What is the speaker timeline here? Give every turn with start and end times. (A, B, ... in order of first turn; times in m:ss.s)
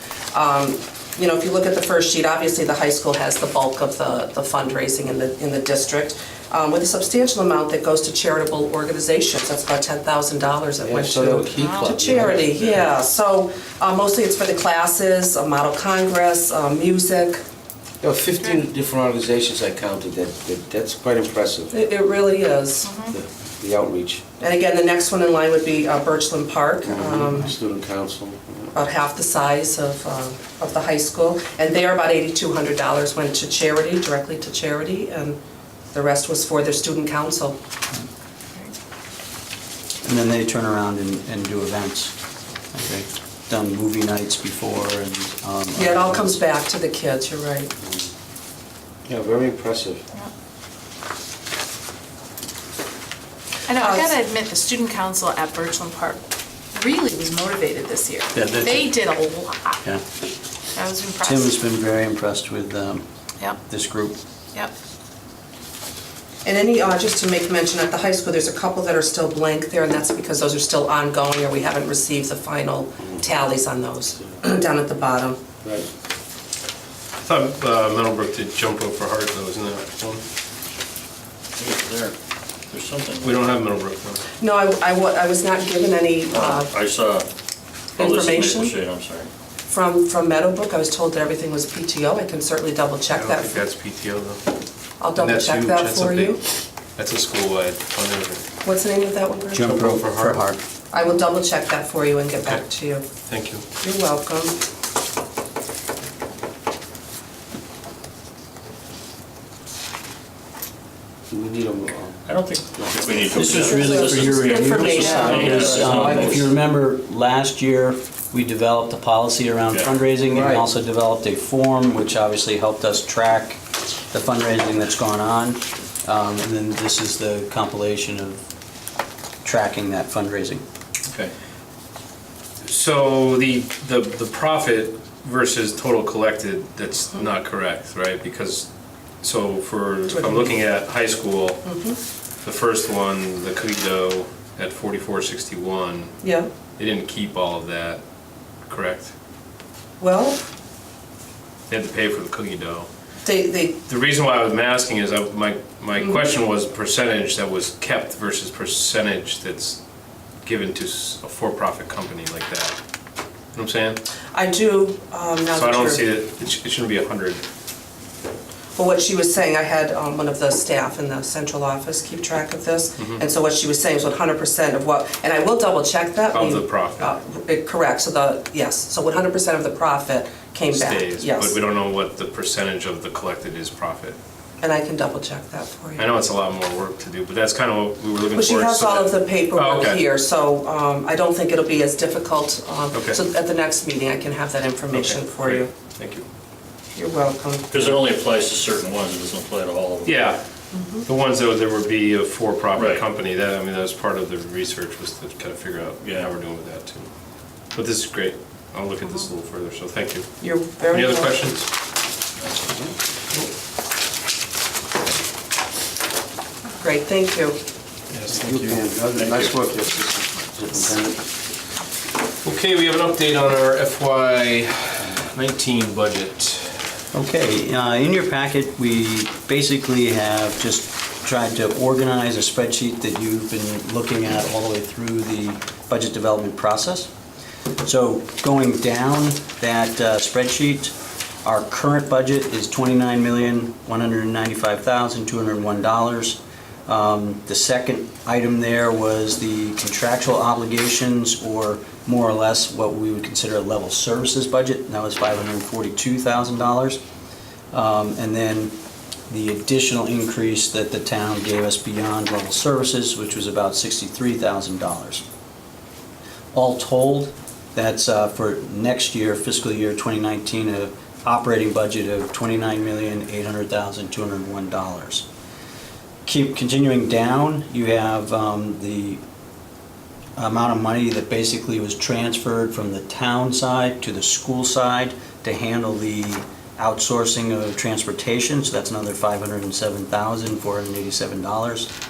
0:00.3-0:17.4 A
0:10.8-0:12.7 B
0:11.5-0:12.0 C
0:18.0-0:21.7 B
0:21.7-0:22.9 A
0:22.8-0:23.2 C
0:23.1-0:24.2 B
0:24.4-0:27.5 A
0:26.8-0:28.7 B
0:28.7-0:35.4 A
0:35.9-0:37.6 A
0:40.0-0:42.1 D
0:42.7-0:46.4 D
0:45.8-0:47.7 A
0:49.1-0:50.0 B
0:53.7-0:59.8 C
0:58.3-0:59.1 D
1:00.7-1:01.5 C
1:01.2-1:03.0 D
1:03.7-1:04.2 D
1:06.4-1:15.4 A
1:17.2-1:20.2 E
1:21.6-1:22.2 F
1:22.7-1:23.5 F
1:23.2-1:24.2 E
1:24.4-1:26.7 A
1:26.3-1:27.3 F
1:28.0-1:29.3 F
1:28.0-1:28.7 A
1:29.7-1:33.6 A
1:33.1-1:34.4 E
1:35.0-1:36.4 A
1:35.2-1:36.4 E
1:37.0-1:38.4 E
1:38.6-1:39.7 A
1:39.5-1:40.6 D
1:39.6-1:40.4 E
1:40.9-1:43.1 A
1:43.2-1:43.6 E
1:43.8-1:44.6 A
1:51.3-1:52.2 B
1:52.2-1:56.5 F
1:53.3-2:03.6 D
1:53.5-1:55.5 A
1:54.7-1:55.4 C
1:55.2-1:56.4 B
2:00.3-2:00.6 B
2:04.1-2:08.4 D
2:09.4-2:10.6 D
2:12.6-2:18.7 E
2:19.2-2:21.7 E
2:20.1-2:20.6 A
2:21.6-2:22.0 A
2:22.4-2:26.1 E
2:26.2-2:26.5 A
2:26.8-2:28.0 E
2:28.7-2:29.1 E
2:30.0-2:30.4 A
2:31.7-2:32.9 E
2:33.2-2:33.8 A
2:33.9-2:39.8 E
2:40.4-2:42.7 E
2:43.5-2:44.0 E
2:44.3-2:46.0 A
2:45.5-2:47.4 E
2:48.8-3:01.6 A
2:56.3-2:57.1 E
3:00.7-3:04.2 E
3:04.6-3:06.1 A
3:06.0-3:10.0 E
3:08.3-3:15.7 A
3:12.9-3:13.2 E
3:14.9-3:16.2 E
3:17.0-3:18.0 A
3:17.7-3:20.2 F
3:20.0-3:20.4 E
3:20.7-3:21.0 A
3:21.0-3:27.1 E
3:22.7-3:23.0 F
3:26.0-3:26.3 F
3:27.7-3:31.7 E
3:30.4-3:31.5 A
3:32.6-3:32.9 B
3:36.8-3:37.6 A
3:38.1-3:39.6 E
3:38.3-3:41.2 B
3:42.4-3:46.8 E
3:47.1-3:57.1 D
3:57.8-4:00.9 D
4:01.4-4:17.0 D
4:17.7-4:18.7 D
4:19.3-4:25.2 D
4:26.5-4:35.2 D
4:36.2-4:39.2 D
4:40.4-4:51.9 D